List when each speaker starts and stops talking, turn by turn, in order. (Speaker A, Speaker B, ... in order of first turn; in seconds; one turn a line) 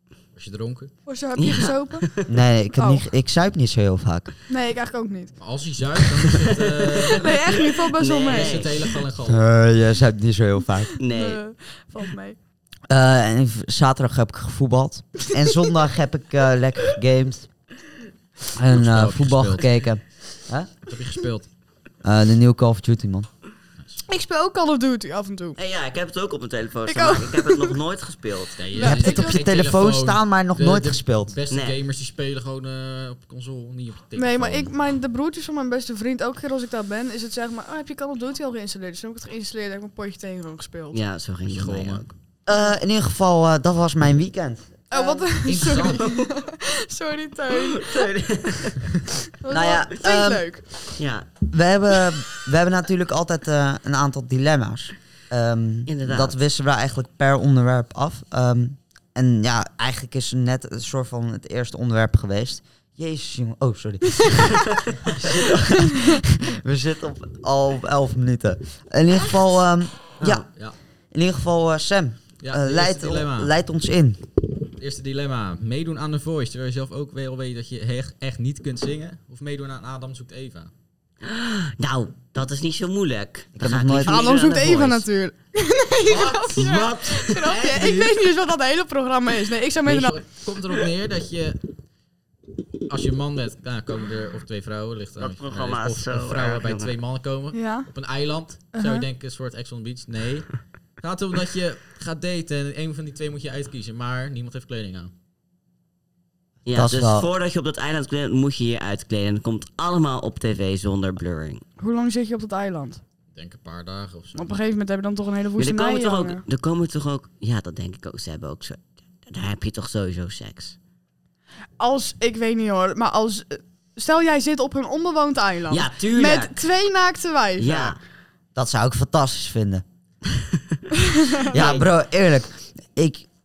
Speaker A: 0.4-0.9
Speaker B: 1.1-2.1
Speaker C: 1.4-2.3
Speaker D: 2.3-4.3
Speaker B: 2.8-3.0
Speaker B: 4.5-5.3
Speaker A: 5.4-7.5
Speaker C: 6.8-8.9
Speaker B: 7.1-8.7
Speaker A: 8.3-9.4
Speaker D: 9.2-10.9
Speaker C: 11.0-11.4
Speaker B: 11.1-12.4
Speaker D: 12.9-17.5
Speaker D: 18.6-20.7
Speaker A: 18.7-19.9
Speaker A: 20.9-21.5
Speaker D: 22.0-23.3
Speaker B: 24.1-25.6
Speaker C: 25.6-28.6
Speaker B: 26.9-27.7
Speaker A: 28.6-34.7
Speaker B: 28.7-29.4
Speaker D: 28.8-31.3
Speaker C: 31.5-31.8
Speaker B: 34.2-41.0
Speaker C: 40.9-42.1
Speaker A: 41.5-42.0
Speaker D: 42.5-45.3
Speaker B: 42.5-42.8
Speaker B: 44.9-48.1
Speaker A: 45.4-46.1
Speaker C: 46.0-46.3
Speaker C: 47.5-48.9
Speaker B: 49.4-50.9
Speaker D: 49.5-50.5
Speaker C: 51.0-51.3
Speaker D: 51.5-70.5
Speaker C: 55.9-56.4
Speaker C: 70.2-70.5
Speaker D: 71.1-74.2
Speaker A: 72.4-73.5
Speaker A: 74.8-80.7
Speaker C: 81.2-85.1
Speaker D: 83.5-84.2
Speaker B: 84.1-90.2
Speaker A: 86.1-86.8
Speaker C: 86.1-87.8
Speaker A: 87.5-88.1
Speaker A: 89.8-91.7
Speaker A: 92.9-105.1
Speaker C: 95.2-96.9
Speaker B: 97.5-97.9
Speaker B: 98.7-99.0
Speaker C: 106.7-111.6
Speaker D: 106.7-107.3
Speaker B: 111.8-113.0
Speaker A: 113.3-114.6
Speaker B: 114.4-116.4
Speaker C: 115.6-120.8
Speaker B: 121.8-128.0
Speaker C: 125.7-126.6
Speaker C: 127.6-128.0
Speaker D: 128.6-129.8
Speaker C: 130.4-130.8
Speaker C: 131.5-131.9
Speaker D: 131.5-133.3